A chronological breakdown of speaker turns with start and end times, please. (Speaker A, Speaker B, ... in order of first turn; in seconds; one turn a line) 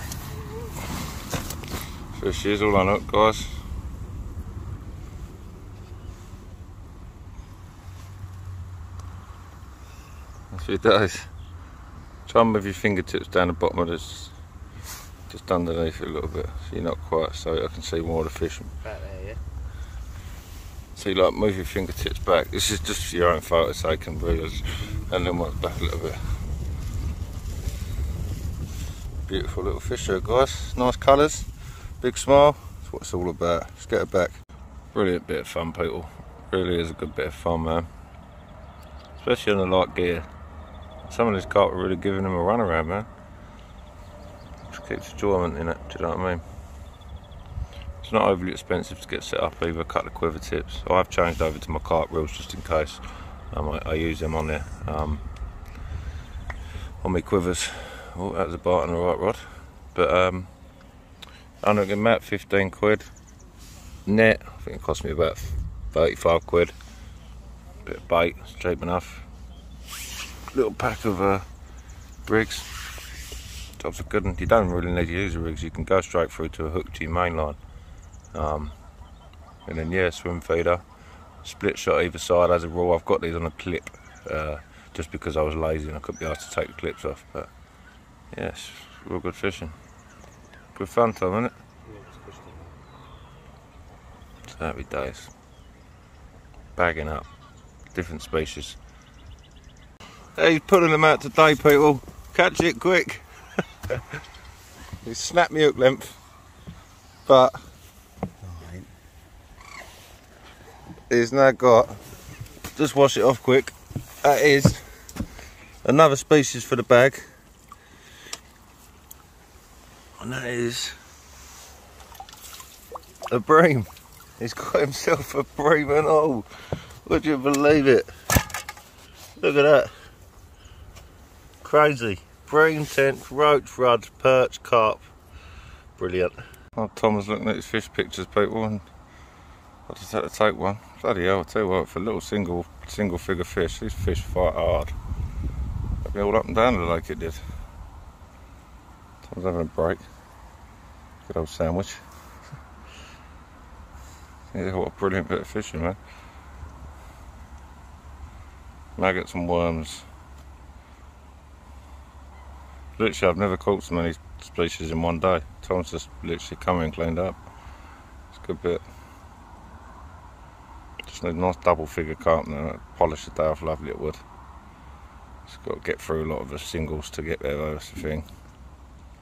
Speaker A: 2.1-3.6
Speaker A: 10.5-11.3
Speaker A: 12.3-14.3
Speaker A: 15.3-18.7
Speaker B: 18.8-19.4
Speaker A: 21.0-26.2
Speaker A: 29.3-31.5
Speaker A: 32.0-34.4
Speaker A: 34.9-37.9
Speaker A: 39.2-40.3
Speaker A: 41.1-43.1
Speaker A: 44.7-46.4
Speaker A: 48.0-55.2
Speaker A: 57.0-60.5
Speaker A: 61.6-63.1
Speaker A: 64.1-66.7
Speaker A: 67.8-69.3
Speaker A: 70.5-71.5
Speaker A: 72.3-72.7
Speaker A: 73.8-77.6
Speaker A: 78.3-78.8
Speaker A: 79.7-80.8
Speaker A: 81.4-87.5
Speaker A: 88.3-89.8
Speaker A: 90.8-91.5
Speaker B: 91.8-92.7
Speaker A: 94.5-95.3
Speaker A: 96.8-97.3
Speaker A: 97.9-98.8
Speaker A: 100.4-103.2
Speaker A: 105.0-106.2
Speaker A: 107.3-107.6
Speaker B: 108.4-108.9
Speaker A: 111.1-112.0
Speaker A: 112.8-114.8
Speaker A: 115.8-117.3
Speaker A: 120.2-121.0
Speaker A: 123.3-123.9
Speaker A: 124.4-126.5
Speaker A: 127.0-128.1
Speaker A: 129.4-129.9
Speaker A: 131.6-135.1
Speaker A: 136.0-138.8
Speaker A: 139.9-144.9
Speaker A: 146.0-147.4
Speaker A: 149.2-150.0
Speaker A: 151.2-152.0
Speaker A: 154.5-156.0
Speaker A: 159.0-160.1
Speaker A: 163.0-167.4
Speaker A: 168.3-168.8
Speaker A: 171.1-174.2
Speaker A: 175.5-178.3